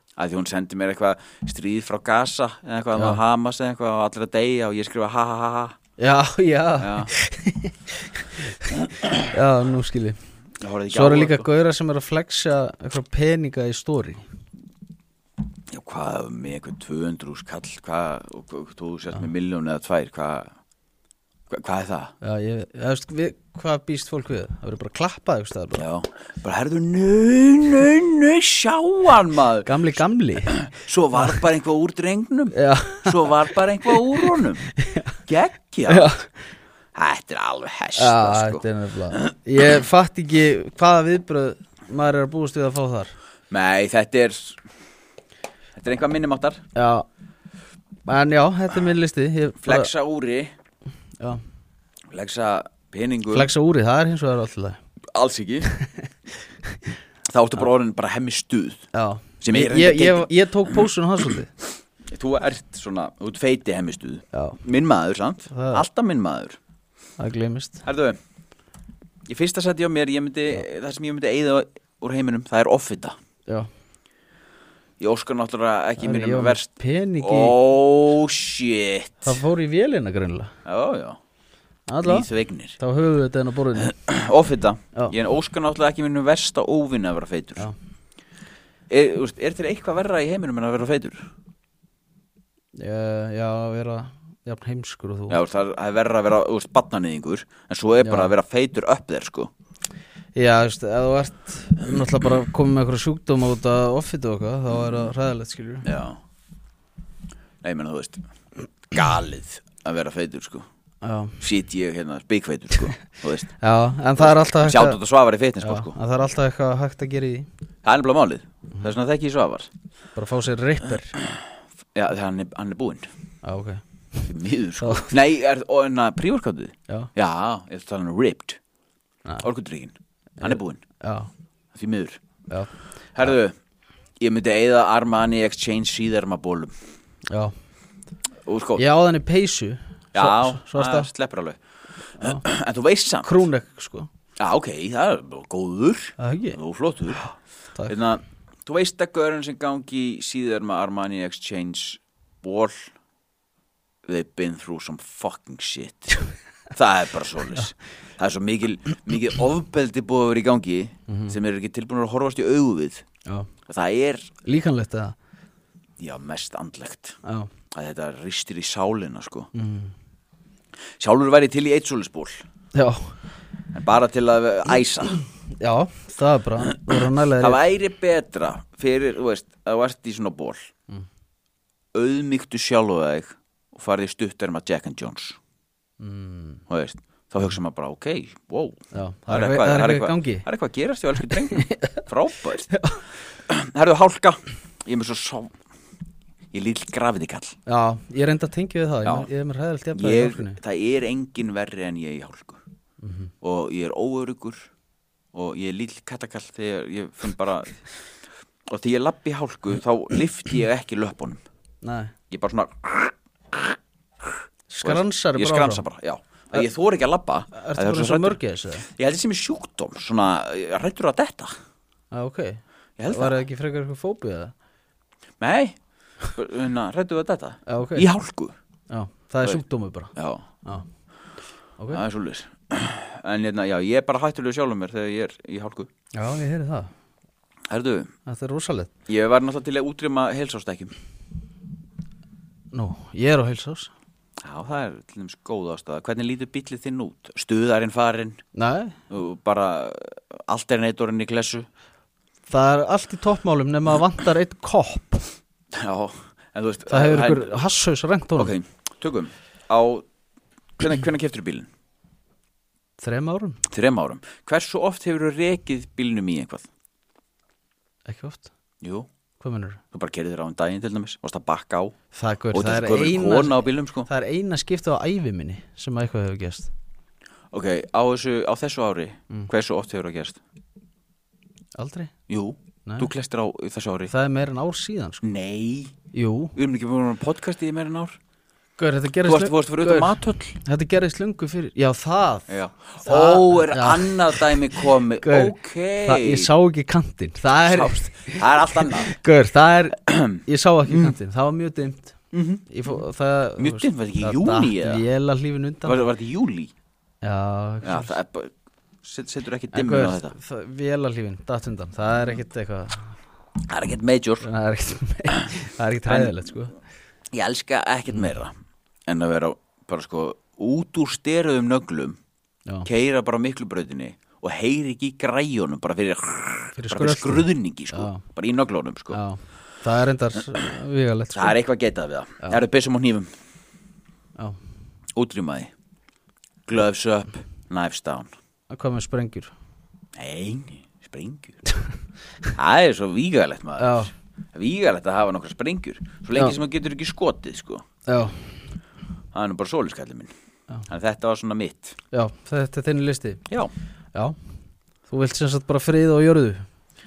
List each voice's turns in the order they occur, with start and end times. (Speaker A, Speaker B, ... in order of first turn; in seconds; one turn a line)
Speaker A: 0.2-5.8
Speaker B: 3.0-3.2
Speaker B: 6.0-10.2
Speaker A: 6.8-7.1
Speaker A: 8.7-9.3
Speaker A: 10.6-11.5
Speaker B: 10.9-14.3
Speaker A: 15.7-20.5
Speaker A: 21.5-22.1
Speaker B: 22.2-25.9
Speaker A: 25.8-29.9
Speaker B: 29.7-31.5
Speaker A: 30.4-34.6
Speaker B: 32.5-35.2
Speaker A: 35.2-36.1
Speaker B: 35.9-36.5
Speaker A: 36.9-39.8
Speaker B: 38.0-43.1
Speaker A: 43.5-44.6
Speaker A: 45.8-46.7
Speaker B: 46.7-47.1
Speaker B: 48.1-49.9
Speaker A: 49.6-50.5
Speaker B: 51.2-51.4
Speaker A: 52.1-53.5
Speaker B: 53.3-54.8
Speaker A: 55.0-55.7
Speaker B: 55.8-56.1
Speaker A: 57.2-61.4
Speaker B: 58.9-61.5
Speaker A: 62.1-66.6
Speaker B: 64.3-64.6
Speaker B: 65.5-65.9
Speaker B: 67.2-67.8
Speaker A: 67.8-68.2
Speaker A: 69.3-73.2
Speaker A: 75.0-79.4
Speaker B: 76.0-77.6
Speaker B: 79.2-80.5
Speaker A: 80.7-81.2
Speaker B: 81.9-83.9
Speaker A: 82.0-82.8
Speaker A: 83.8-87.7
Speaker A: 88.9-91.3
Speaker B: 92.8-95.4
Speaker A: 95.3-99.5
Speaker B: 98.0-98.3
Speaker B: 100.3-105.9
Speaker A: 105.8-106.2
Speaker A: 107.6-108.2
Speaker A: 108.9-110.7
Speaker B: 111.0-111.4
Speaker A: 111.4-113.5
Speaker B: 113.6-115.0
Speaker A: 114.2-116.0
Speaker B: 115.6-117.5
Speaker A: 117.8-119.7
Speaker B: 120.2-121.2
Speaker A: 121.1-121.4
Speaker A: 122.0-123.1
Speaker B: 123.4-125.1
Speaker A: 124.3-128.6
Speaker A: 129.4-130.8
Speaker B: 130.4-131.3
Speaker A: 131.7-132.2
Speaker A: 133.2-133.6
Speaker A: 134.2-136.7
Speaker B: 137.3-137.5
Speaker A: 138.4-138.8
Speaker B: 138.8-141.1
Speaker A: 140.1-141.6
Speaker A: 142.2-143.5
Speaker B: 143.2-144.1
Speaker A: 144.4-147.2
Speaker B: 146.2-146.6
Speaker B: 147.2-147.9
Speaker A: 147.9-152.9
Speaker A: 154.1-156.2
Speaker A: 156.7-163.1
Speaker B: 161.1-161.4
Speaker B: 163.2-163.5
Speaker A: 163.6-164.4
Speaker B: 164.4-165.2
Speaker A: 166.0-167.2
Speaker B: 167.2-167.5
Speaker A: 167.7-169.5
Speaker B: 169.6-169.9
Speaker A: 171.0-172.4
Speaker B: 172.7-173.1
Speaker A: 173.7-175.2
Speaker B: 175.5-177.7
Speaker A: 176.6-180.7
Speaker A: 181.9-185.4
Speaker B: 186.0-186.6
Speaker A: 186.7-192.7
Speaker B: 188.9-190.5
Speaker B: 191.2-192.0
Speaker B: 192.6-193.1
Speaker A: 193.5-195.6
Speaker A: 196.5-197.6
Speaker B: 197.7-200.6
Speaker A: 199.1-199.3
Speaker A: 199.9-202.6
Speaker B: 203.0-203.3
Speaker A: 203.4-204.7
Speaker A: 205.3-207.9
Speaker A: 208.7-211.4
Speaker B: 211.8-212.2
Speaker A: 212.3-213.8
Speaker B: 214.7-215.9
Speaker A: 214.8-221.5
Speaker B: 217.6-218.9
Speaker B: 222.1-224.5
Speaker A: 223.0-223.4
Speaker A: 225.4-228.6
Speaker B: 227.7-228.1
Speaker B: 228.9-230.9
Speaker A: 230.2-230.5
Speaker A: 231.9-235.9
Speaker B: 236.2-236.9
Speaker A: 237.7-238.1
Speaker B: 238.2-238.9
Speaker A: 239.1-240.9
Speaker B: 242.7-243.9
Speaker A: 244.4-248.4
Speaker B: 248.5-249.0
Speaker A: 249.1-251.7
Speaker B: 252.5-255.3
Speaker A: 255.7-257.6
Speaker B: 256.9-258.6
Speaker A: 258.4-260.1
Speaker A: 260.8-261.7
Speaker B: 263.0-263.6
Speaker A: 263.7-266.7
Speaker B: 268.1-268.5
Speaker A: 268.8-269.1
Speaker B: 269.4-269.8
Speaker A: 269.9-272.0
Speaker B: 272.1-276.7
Speaker A: 272.5-274.1
Speaker A: 277.5-280.4
Speaker B: 281.8-282.2
Speaker A: 282.3-284.1
Speaker B: 282.9-283.1
Speaker B: 284.1-285.2
Speaker A: 285.2-286.0
Speaker B: 286.1-286.6
Speaker A: 286.6-288.2
Speaker B: 288.8-306.1
Speaker A: 289.2-290.6
Speaker A: 292.5-296.5
Speaker A: 297.7-299.1
Speaker A: 300.0-301.1
Speaker A: 302.3-303.0
Speaker A: 303.6-305.0
Speaker A: 305.9-306.7
Speaker B: 307.2-308.2
Speaker A: 307.8-308.5
Speaker A: 309.0-310.4
Speaker B: 309.7-313.2
Speaker A: 313.6-314.5
Speaker B: 314.4-316.7
Speaker A: 316.1-316.5
Speaker A: 317.3-318.6
Speaker A: 319.1-322.2
Speaker A: 322.9-329.2
Speaker B: 326.8-328.3
Speaker B: 329.1-331.6
Speaker A: 331.3-333.3
Speaker A: 335.2-335.7
Speaker A: 336.7-338.4
Speaker B: 338.7-339.5
Speaker A: 340.2-341.6
Speaker A: 342.6-344.0
Speaker B: 343.8-344.1
Speaker A: 344.5-347.9
Speaker B: 348.1-348.6
Speaker A: 349.3-350.3
Speaker A: 350.9-352.0
Speaker B: 352.1-353.5
Speaker B: 355.1-356.6